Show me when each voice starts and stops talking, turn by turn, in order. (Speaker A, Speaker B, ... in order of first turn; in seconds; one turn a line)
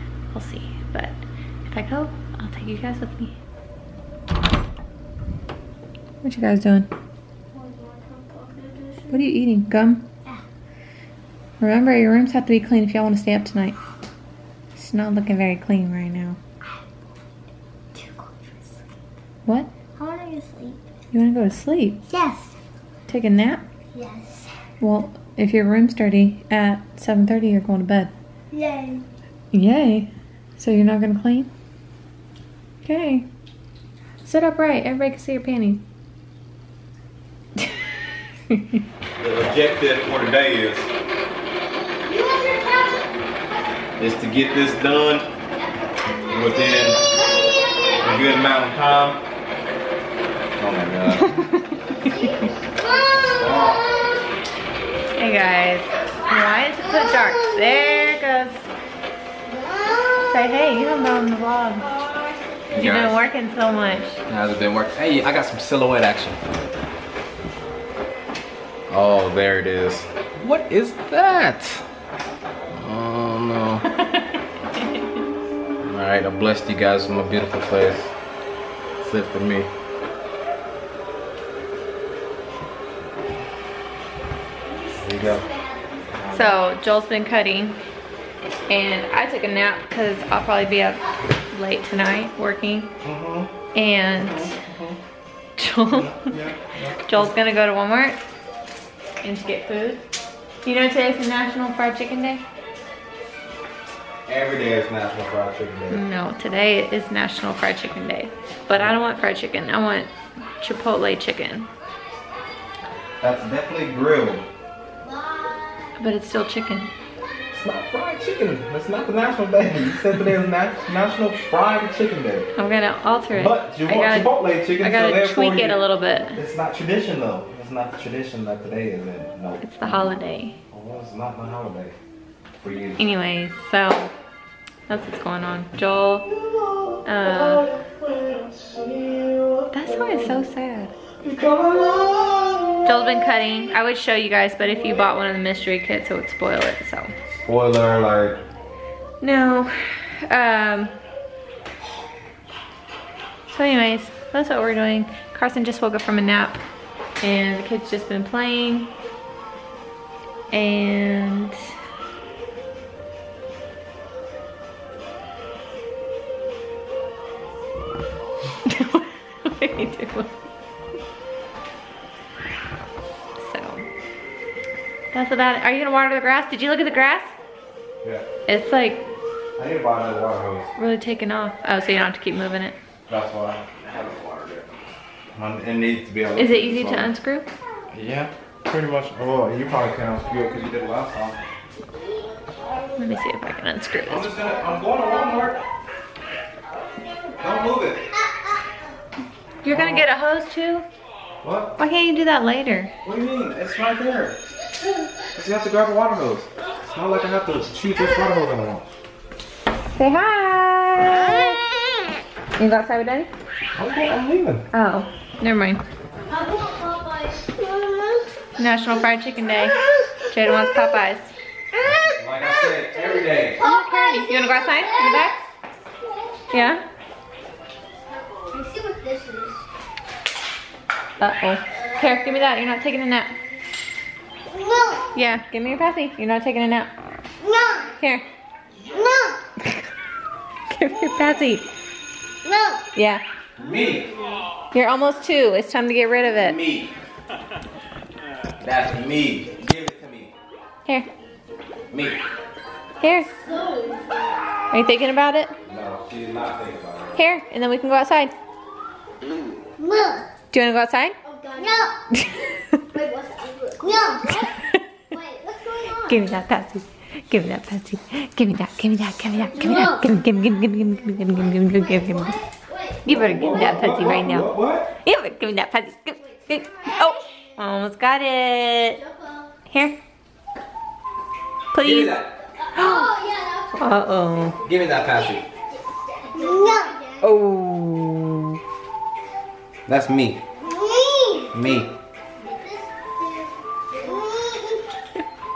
Speaker A: 0.3-3.4
Speaker A: 6.2-6.9
Speaker B: 7.5-9.2
Speaker A: 9.1-10.1
Speaker A: 11.6-13.8
Speaker A: 14.8-16.4
Speaker B: 17.9-18.8
Speaker A: 19.5-19.7
Speaker B: 20.0-20.8
Speaker A: 21.1-22.0
Speaker B: 22.1-22.6
Speaker A: 23.1-23.6
Speaker B: 23.9-24.6
Speaker A: 24.8-28.1
Speaker B: 28.5-29.1
Speaker A: 29.5-31.5
Speaker A: 32.8-33.3
Speaker A: 34.2-35.9
Speaker A: 38.5-38.8
Speaker C: 39.2-40.9
Speaker B: 42.0-43.1
Speaker C: 44.0-45.3
Speaker B: 45.5-46.6
Speaker C: 46.3-47.0
Speaker B: 47.3-48.2
Speaker C: 48.0-49.2
Speaker C: 50.6-51.3
Speaker A: 51.1-52.2
Speaker B: 52.0-53.8
Speaker C: 53.1-53.9
Speaker A: 55.2-58.6
Speaker B: 59.5-60.2
Speaker A: 60.2-61.9
Speaker B: 62.0-62.8
Speaker C: 62.7-63.2
Speaker A: 62.8-64.2
Speaker C: 64.2-66.4
Speaker C: 68.9-71.8
Speaker C: 72.7-73.8
Speaker A: 73.9-75.2
Speaker C: 75.8-78.1
Speaker C: 79.0-79.7
Speaker B: 84.7-86.1
Speaker C: 85.0-85.5
Speaker C: 86.1-86.6
Speaker A: 86.3-87.8
Speaker A: 88.7-92.9
Speaker C: 93.0-93.5
Speaker A: 93.7-94.6
Speaker C: 94.2-95.0
Speaker A: 95.6-96.4
Speaker C: 95.9-97.3
Speaker A: 97.0-98.2
Speaker A: 99.2-100.0
Speaker A: 100.6-102.5
Speaker C: 104.3-106.0
Speaker A: 105.9-111.7
Speaker C: 113.2-114.5
Speaker B: 115.0-116.0
Speaker A: 116.0-116.9
Speaker C: 117.5-122.5
Speaker A: 122.6-126.4
Speaker C: 123.3-125.8
Speaker C: 126.4-130.1
Speaker A: 129.6-130.6
Speaker C: 130.7-131.9
Speaker C: 132.6-133.0
Speaker A: 133.0-134.1
Speaker A: 134.9-136.3
Speaker C: 136.5-140.4
Speaker A: 137.1-137.7
Speaker A: 139.7-140.9
Speaker C: 141.2-143.0
Speaker A: 142.8-147.1
Speaker C: 147.3-148.4
Speaker A: 149.2-150.9
Speaker A: 153.5-156.6
Speaker A: 157.2-158.9
Speaker A: 160.5-161.7
Speaker A: 168.6-170.3
Speaker A: 173.4-173.9
Speaker A: 175.1-177.3
Speaker A: 178.5-179.1
Speaker C: 179.6-180.7
Speaker A: 180.8-182.8
Speaker C: 183.1-184.7
Speaker C: 185.3-187.1
Speaker A: 186.4-187.5
Speaker C: 187.9-191.4
Speaker A: 193.0-194.3
Speaker C: 194.1-195.6
Speaker C: 197.4-198.1
Speaker A: 199.6-200.9
Speaker C: 199.7-200.1
Speaker C: 201.4-201.8
Speaker A: 201.8-202.9
Speaker C: 203.0-204.4
Speaker C: 205.3-208.9
Speaker A: 209.9-211.6
Speaker A: 212.6-213.3
Speaker C: 213.8-214.7
Speaker A: 214.7-215.8
Speaker B: 216.3-218.3
Speaker A: 218.6-219.8
Speaker A: 220.3-221.3
Speaker C: 222.0-223.6
Speaker B: 223.6-225.3
Speaker A: 223.6-225.4
Speaker A: 226.5-226.8
Speaker B: 228.3-229.7
Speaker A: 231.2-233.4
Speaker B: 234.5-235.1
Speaker A: 235.1-236.9
Speaker B: 237.4-237.9
Speaker A: 238.0-238.2
Speaker B: 238.9-239.4
Speaker A: 239.6-239.9
Speaker A: 240.7-241.7
Speaker B: 242.4-242.8
Speaker A: 242.9-243.2
Speaker C: 243.6-244.1
Speaker A: 244.7-246.6
Speaker C: 246.4-247.0
Speaker C: 248.6-250.3
Speaker C: 251.9-252.2
Speaker A: 253.0-253.3
Speaker B: 253.3-254.3
Speaker A: 254.7-255.6
Speaker C: 255.7-257.2
Speaker A: 257.1-258.3
Speaker B: 259.8-260.3
Speaker A: 260.5-261.1
Speaker B: 261.2-262.0
Speaker A: 262.1-262.8
Speaker B: 262.9-266.3
Speaker A: 264.4-264.8
Speaker A: 266.0-272.4
Speaker B: 269.5-273.2
Speaker A: 273.1-279.0
Speaker C: 273.1-274.9
Speaker B: 276.2-277.5
Speaker B: 279.0-279.5
Speaker A: 279.7-280.0
Speaker A: 281.7-282.2
Speaker C: 281.8-282.4
Speaker B: 282.6-287.2
Speaker A: 282.8-283.1
Speaker A: 283.8-284.6
Speaker C: 284.6-285.4
Speaker A: 287.2-288.6
Speaker C: 289.9-290.4
Speaker B: 290.6-291.6
Speaker C: 291.5-291.9
Speaker B: 292.4-294.9